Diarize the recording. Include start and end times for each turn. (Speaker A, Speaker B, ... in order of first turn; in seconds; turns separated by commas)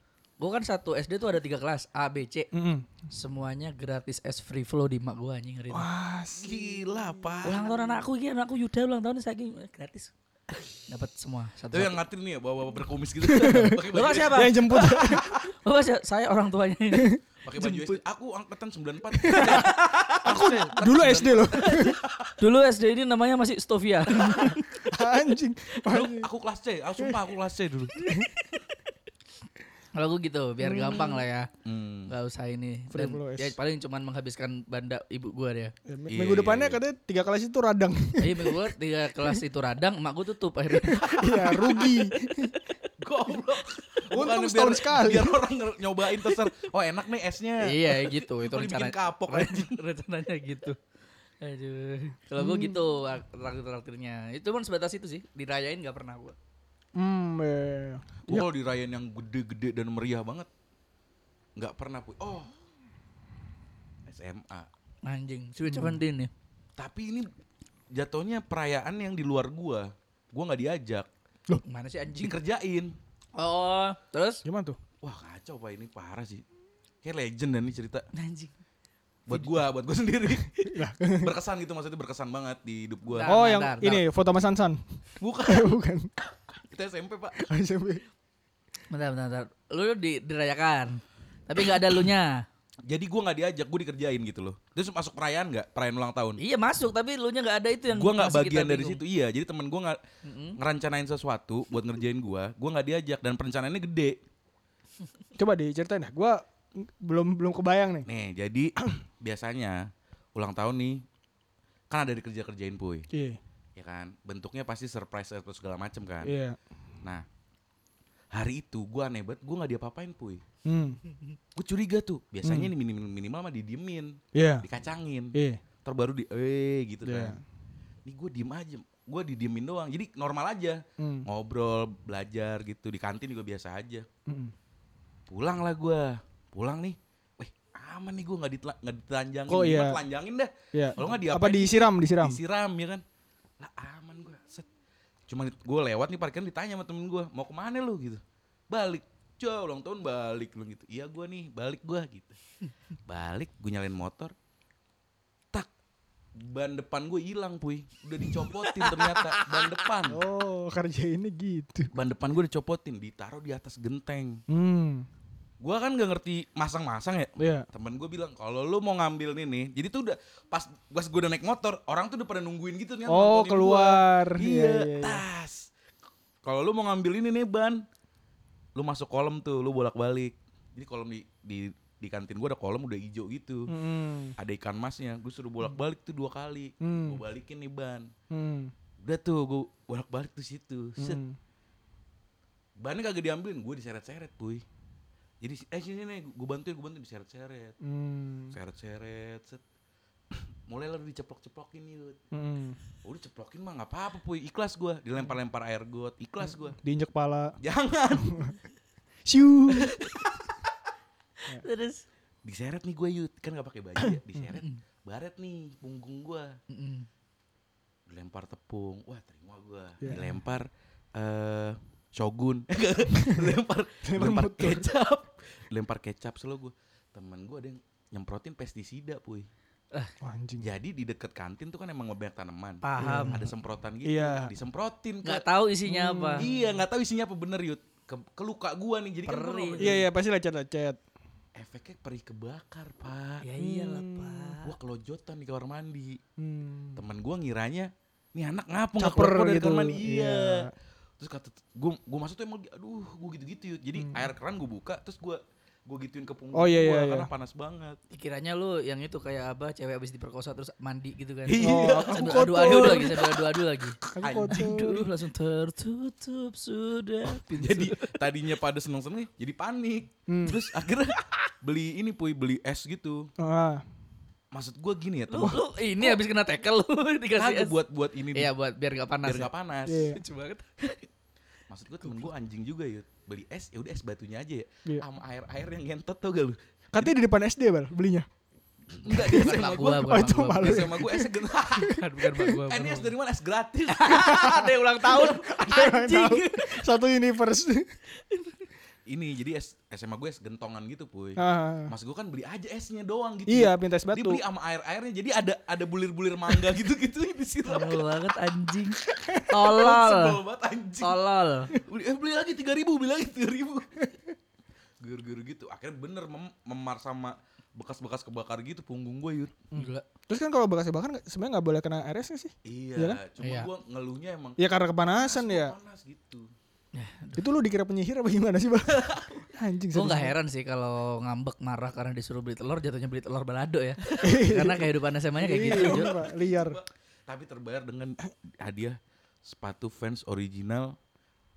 Speaker A: 0.4-2.5, Speaker B: 2.5-2.9, Speaker A: 3.1-5.9, Speaker B: 5.7-6.7, Speaker C: 6.4-7.7, Speaker A: 7.4-10.1, Speaker A: 10.9-12.0, Speaker C: 11.7-15.5, Speaker B: 13.2-15.3, Speaker A: 13.9-14.9, Speaker A: 15.5-17.2, Speaker B: 16.9-18.0, Speaker C: 17.4-22.4, Speaker B: 19.2-22.0, Speaker A: 19.3-20.0, Speaker A: 22.4-24.9, Speaker B: 24.4-26.3, Speaker C: 25.9-28.1, Speaker A: 29.9-31.5, Speaker B: 30.6-31.2, Speaker C: 31.6-32.1, Speaker A: 32.1-35.7, Speaker B: 32.9-33.6, Speaker B: 35.9-38.7, Speaker C: 36.1-36.8, Speaker A: 38.2-42.6, Speaker B: 40.9-42.5, Speaker C: 40.9-41.9, Speaker C: 43.0-49.8, Speaker B: 44.1-45.4, Speaker A: 47.6-50.8, Speaker A: 51.4-56.4, Speaker B: 52.4-52.9, Speaker B: 57.0-58.5, Speaker C: 58.3-60.5, Speaker C: 61.6-62.5, Speaker C: 64.1-64.7, Speaker A: 65.0-66.3, Speaker B: 65.7-66.0, Speaker C: 66.8-67.3, Speaker C: 67.9-71.1, Speaker A: 71.6-72.4, Speaker C: 72.2-73.0, Speaker A: 73.4-74.4, Speaker B: 74.5-74.8, Speaker C: 75.0-76.4, Speaker C: 77.0-78.1, Speaker A: 78.1-78.5, Speaker C: 79.3-83.3, Speaker B: 80.6-81.3, Speaker A: 83.1-84.0, Speaker B: 83.2-84.8, Speaker C: 85.2-85.8, Speaker B: 85.5-86.1, Speaker C: 86.6-87.5, Speaker B: 87.4-88.0, Speaker A: 88.9-92.4, Speaker C: 92.8-96.4, Speaker A: 96.4-99.0, Speaker C: 97.9-100.0, Speaker A: 100.2-100.6, Speaker C: 100.6-104.2, Speaker B: 105.4-108.1, Speaker C: 108.1-111.0, Speaker C: 111.9-113.1, Speaker B: 113.1-113.4, Speaker C: 113.8-116.3, Speaker B: 116.2-116.6, Speaker C: 118.3-120.4, Speaker B: 120.7-121.0, Speaker C: 121.5-127.4, Speaker B: 122.4-122.7, Speaker B: 124.3-124.7, Speaker B: 125.3-125.6, Speaker B: 127.1-127.4, Speaker C: 128.1-134.1, Speaker B: 131.0-131.3, Speaker B: 134.3-134.5, Speaker C: 135.3-143.0, Speaker B: 139.5-140.0, Speaker B: 140.7-142.4, Speaker C: 143.6-144.7, Speaker C: 145.3-152.4, Speaker C: 153.1-154.3, Speaker C: 156.3-160.2, Speaker B: 158.6-159.1, Speaker B: 160.1-161.9, Speaker C: 161.9-164.4, Speaker B: 164.5-165.1, Speaker C: 165.6-175.7, Speaker B: 167.4-167.7, Speaker B: 173.1-175.2, Speaker C: 176.4-177.8, Speaker C: 178.8-183.7, Speaker B: 183.7-184.3, Speaker C: 184.4-188.1, Speaker B: 186.8-187.2, Speaker B: 188.3-188.7, Speaker C: 189.0-191.2, Speaker B: 191.0-191.4, Speaker C: 192.8-194.7, Speaker C: 195.4-197.8, Speaker B: 197.8-198.6, Speaker C: 198.5-199.6, Speaker C: 200.3-202.2, Speaker B: 202.3-202.8, Speaker C: 203.0-206.8, Speaker B: 206.8-207.6, Speaker C: 207.6-208.5, Speaker B: 209.3-209.9, Speaker C: 209.7-210.4, Speaker A: 211.5-212.1, Speaker C: 212.4-216.6, Speaker B: 214.0-214.4, Speaker A: 214.5-214.8, Speaker A: 216.7-217.1, Speaker C: 218.1-229.5, Speaker B: 220.0-220.3, Speaker B: 223.2-223.5, Speaker B: 224.1-224.9, Speaker B: 230.2-230.7, Speaker C: 230.6-235.5, Speaker A: 232.8-233.4, Speaker B: 233.0-233.5, Speaker B: 234.1-234.5, Speaker A: 235.2-236.5, Speaker B: 235.9-236.7, Speaker C: 236.4-240.1, Speaker A: 239.3-239.9, Speaker B: 239.8-241.0, Speaker C: 241.6-243.4, Speaker A: 243.4-244.7, Speaker B: 243.6-244.5, Speaker C: 244.6-246.2, Speaker B: 246.4-247.0, Speaker C: 246.9-258.0, Speaker B: 249.0-250.7, Speaker B: 254.0-254.3, Speaker B: 256.5-257.3, Speaker A: 258.1-268.2, Speaker C: 261.5-263.4, Speaker B: 261.6-263.2, Speaker B: 264.1-265.1, Speaker C: 264.2-264.8, Speaker C: 267.4-273.3, Speaker B: 270.3-270.6, Speaker B: 273.4-273.8, Speaker C: 274.5-275.6, Speaker A: 275.3-277.8, Speaker C: 277.4-278.5, Speaker A: 278.3-281.0, Speaker C: 279.2-280.2, Speaker B: 279.9-280.2, Speaker C: 281.7-287.1, Speaker B: 286.9-288.3, Speaker C: 288.9-292.0, Speaker A: 289.1-290.9, Speaker B: 289.1-292.5, Speaker A: 291.8-293.1, Speaker C: 292.7-295.4, Speaker A: 293.9-296.9, Speaker B: 294.3-294.6, Speaker B: 295.1-297.9, Speaker A: 298.1-298.7, Speaker C: 299.1-308.1, Speaker B: 301.4-301.9, Speaker B: 303.5-304.4, Speaker A: 307.7-310.4, Speaker C: 309.5-311.2, Speaker A: 311.0-311.7, Speaker C: 311.8-314.1, Speaker C: 315.0-319.6, Speaker B: 319.7-323.2, Speaker A: 319.7-320.0, Speaker C: 322.6-326.5, Speaker A: 323.4-323.7, Speaker B: 324.6-325.7, Speaker A: 326.9-327.4, Speaker B: 327.4-330.3, Speaker C: 328.9-329.4, Speaker A: 329.9-336.1, Speaker B: 334.2-336.8, Speaker C: 335.6-341.0